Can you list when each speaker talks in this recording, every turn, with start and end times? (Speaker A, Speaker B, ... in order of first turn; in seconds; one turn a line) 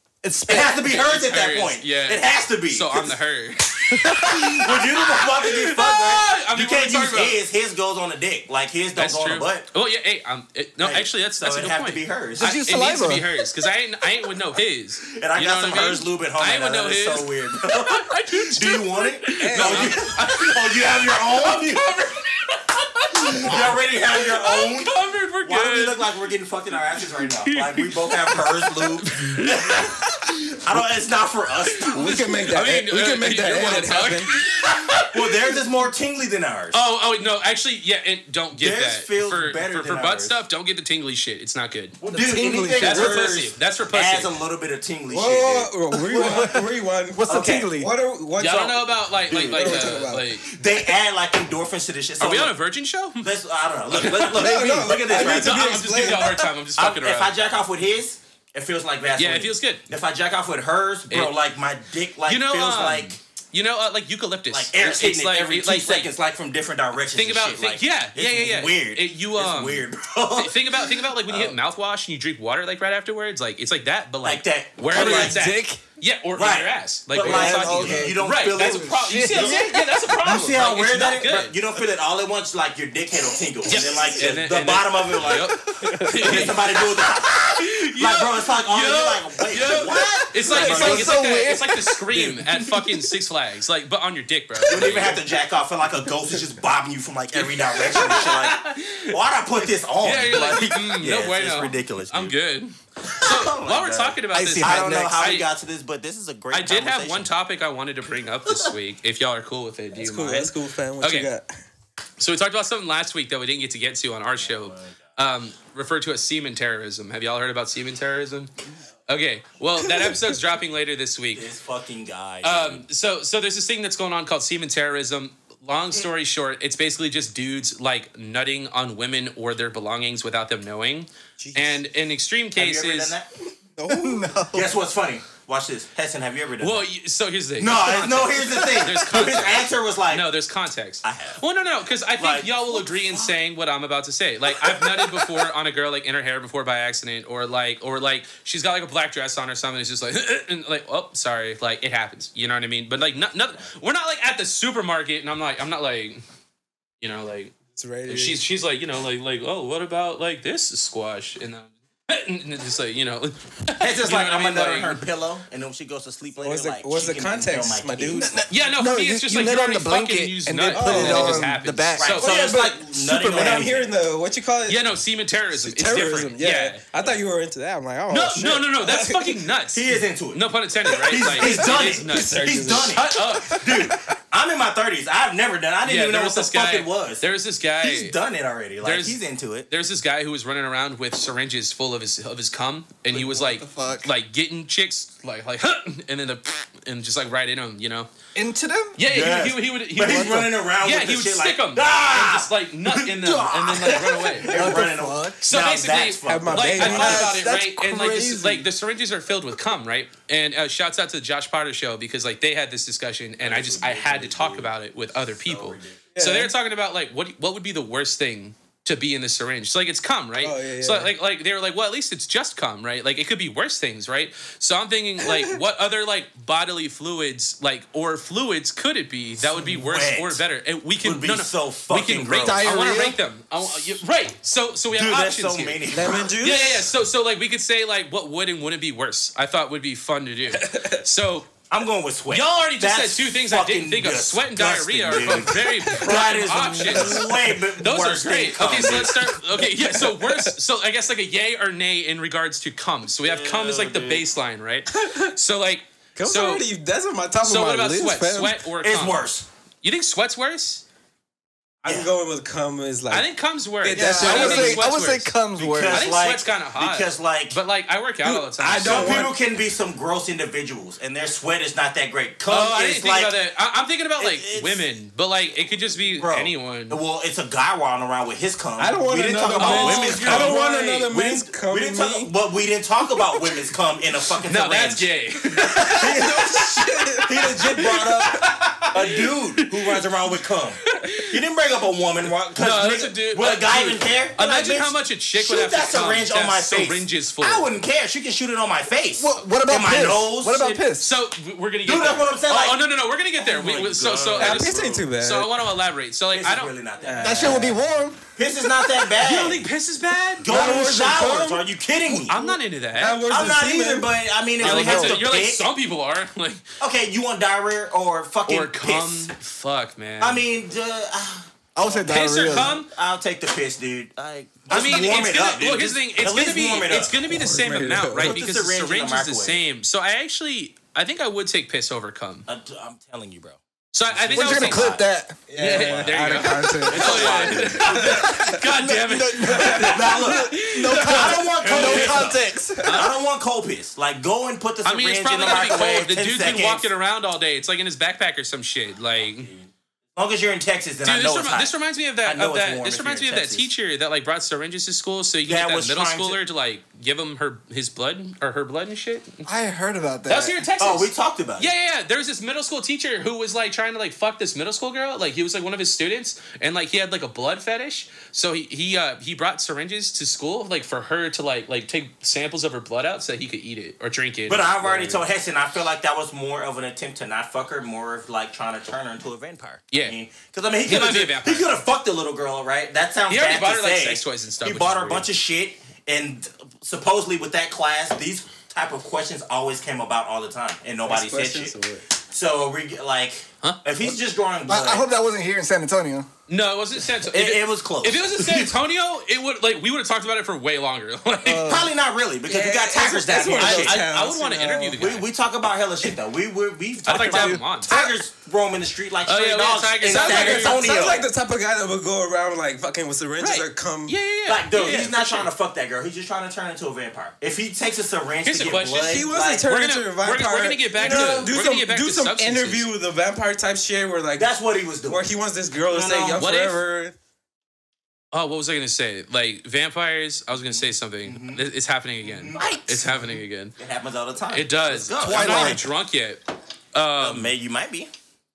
Speaker A: 0.2-0.8
Speaker B: 0.5-3.1
Speaker C: 0.8-7.4
Speaker A: 3.9-4.7
Speaker B: 4.3-9.7
Speaker C: 9.0-26.1
Speaker B: 10.8-12.5
Speaker A: 12.4-13.2
Speaker B: 15.1-21.9
Speaker D: 19.4-20.1
Speaker B: 23.2-32.2
Speaker C: 27.0-30.4
Speaker C: 31.8-35.6
Speaker D: 31.9-34.3
Speaker B: 34.9-36.8
Speaker C: 36.7-42.0
Speaker B: 38.5-40.4
Speaker B: 42.0-46.5
Speaker A: 42.1-43.4
Speaker C: 42.8-44.3
Speaker D: 45.1-50.3
Speaker A: 46.0-47.9
Speaker B: 47.3-47.7
Speaker C: 48.4-50.5
Speaker B: 49.3-52.5
Speaker C: 52.2-53.3
Speaker B: 53.2-56.2
Speaker C: 53.9-57.3
Speaker D: 54.3-56.4
Speaker A: 54.6-55.1
Speaker B: 56.8-63.2
Speaker C: 59.2-59.8
Speaker C: 61.1-61.4
Speaker C: 62.3-66.1
Speaker B: 64.5-71.6
Speaker C: 67.2-81.6
Speaker B: 74.2-75.4
Speaker A: 74.9-75.8
Speaker B: 76.4-79.6
Speaker A: 77.2-79.9
Speaker B: 80.2-85.5
Speaker C: 83.7-95.2
Speaker A: 83.7-84.2
Speaker A: 85.2-87.1
Speaker B: 86.2-91.2
Speaker A: 89.5-92.9
Speaker B: 94.7-102.4
Speaker C: 97.3-99.2
Speaker C: 100.0-105.5
Speaker B: 103.1-107.3
Speaker A: 104.3-105.2
Speaker C: 106.5-111.3
Speaker D: 110.0-111.5
Speaker C: 112.2-118.5
Speaker B: 114.4-115.0
Speaker C: 119.1-121.5
Speaker B: 121.3-122.8
Speaker C: 122.4-133.2
Speaker D: 131.4-131.8
Speaker B: 132.6-133.3
Speaker D: 133.8-134.3
Speaker A: 133.9-134.7
Speaker B: 134.5-136.9
Speaker C: 136.6-156.2
Speaker B: 137.6-140.3
Speaker A: 138.6-138.9
Speaker B: 141.0-141.4
Speaker B: 142.2-143.3
Speaker B: 144.7-145.2
Speaker C: 157.0-157.5
Speaker D: 157.7-158.4
Speaker C: 158.1-165.1
Speaker B: 163.8-168.3
Speaker D: 166.4-168.4
Speaker A: 168.1-172.5
Speaker C: 168.5-172.3
Speaker D: 170.7-171.5
Speaker B: 172.0-173.9
Speaker D: 172.2-174.8
Speaker C: 174.7-176.8
Speaker D: 175.6-179.4
Speaker C: 178.1-183.7
Speaker B: 179.7-187.2
Speaker D: 181.2-183.0
Speaker C: 185.8-188.2
Speaker B: 187.8-189.7
Speaker C: 188.8-189.2
Speaker C: 189.7-198.1
Speaker A: 193.1-194.1
Speaker A: 198.3-199.0
Speaker C: 199.0-204.6
Speaker B: 199.1-207.3
Speaker A: 200.0-200.5
Speaker A: 204.5-205.4
Speaker C: 205.4-241.5
Speaker D: 206.3-207.3
Speaker A: 206.8-208.7
Speaker B: 213.4-214.7
Speaker B: 215.4-216.0
Speaker D: 216.1-216.5
Speaker D: 220.4-221.1
Speaker D: 225.2-225.6
Speaker B: 229.5-230.4
Speaker B: 231.0-232.7
Speaker A: 232.3-233.2
Speaker B: 234.9-236.3
Speaker D: 235.9-236.8
Speaker D: 240.5-241.0
Speaker B: 241.7-249.3
Speaker C: 242.3-256.6
Speaker D: 246.8-247.4
Speaker D: 249.5-250.5
Speaker B: 253.2-254.2
Speaker D: 254.9-255.3
Speaker D: 256.2-258.6
Speaker C: 257.4-259.3
Speaker B: 258.8-259.5
Speaker C: 259.8-260.8
Speaker B: 261.8-262.1
Speaker D: 261.8-263.3
Speaker C: 263.1-265.4
Speaker D: 263.8-264.9
Speaker A: 263.9-266.0
Speaker B: 265.6-267.6
Speaker C: 265.9-269.3
Speaker D: 268.2-269.4
Speaker B: 268.8-273.3
Speaker C: 272.5-277.0
Speaker B: 274.2-274.8
Speaker B: 276.2-285.1
Speaker D: 278.8-282.3
Speaker C: 279.6-281.1
Speaker C: 284.4-290.0
Speaker B: 285.7-300.8
Speaker D: 285.8-287.3
Speaker C: 290.9-291.4
Speaker C: 292.6-297.7
Speaker A: 299.2-301.1
Speaker C: 300.9-306.7
Speaker B: 301.8-302.8
Speaker B: 303.4-305.0
Speaker D: 304.4-305.6
Speaker B: 306.3-307.7
Speaker D: 307.0-307.8
Speaker A: 307.2-308.2
Speaker B: 308.4-309.7
Speaker C: 309.2-310.5
Speaker B: 310.4-312.4
Speaker D: 310.5-311.6
Speaker C: 312.3-313.2
Speaker D: 313.0-314.1
Speaker B: 313.3-315.7
Speaker C: 314.6-316.7
Speaker A: 314.6-315.2
Speaker B: 316.8-319.3
Speaker C: 318.5-320.4
Speaker B: 320.2-327.1
Speaker A: 321.8-322.8
Speaker C: 322.1-322.9
Speaker C: 324.7-332.5
Speaker D: 327.2-328.4
Speaker B: 328.1-329.6
Speaker B: 332.5-335.0
Speaker C: 333.9-334.9
Speaker A: 334.3-335.5
Speaker D: 335.5-338.4
Speaker C: 335.6-343.1
Speaker B: 335.8-337.9
Speaker A: 338.0-343.0
Speaker D: 339.5-339.9
Speaker B: 339.6-346.9
Speaker C: 344.9-349.5
Speaker B: 349.4-353.7
Speaker C: 351.0-359.4
Speaker B: 355.5-356.4
Speaker A: 359.4-360.6
Speaker C: 360.3-375.2
Speaker B: 360.8-361.7
Speaker B: 374.5-391.8
Speaker C: 379.9-380.2
Speaker C: 380.9-381.7
Speaker C: 383.3-385.3
Speaker D: 391.0-392.1
Speaker B: 392.3-395.1
Speaker A: 394.7-396.3
Speaker C: 396.5-401.8
Speaker B: 397.3-398.8
Speaker A: 401.4-401.9
Speaker B: 401.6-404.0
Speaker D: 402.5-405.0
Speaker C: 403.6-405.3
Speaker B: 405.0-411.3
Speaker C: 407.1-407.9
Speaker A: 407.1-408.1
Speaker C: 409.3-410.9
Speaker D: 410.1-414.2
Speaker C: 413.4-415.5
Speaker B: 414.5-419.7
Speaker C: 418.4-422.9
Speaker D: 419.1-424.5
Speaker B: 420.9-421.5
Speaker B: 424.4-425.2
Speaker D: 425.1-427.1
Speaker B: 425.9-426.4
Speaker C: 426.4-426.8
Speaker C: 428.3-433.7
Speaker B: 431.2-431.6
Speaker B: 432.3-433.1
Speaker B: 433.8-435.9
Speaker C: 434.5-436.4
Speaker A: 435.2-435.8
Speaker C: 436.9-437.5
Speaker B: 437.2-438.1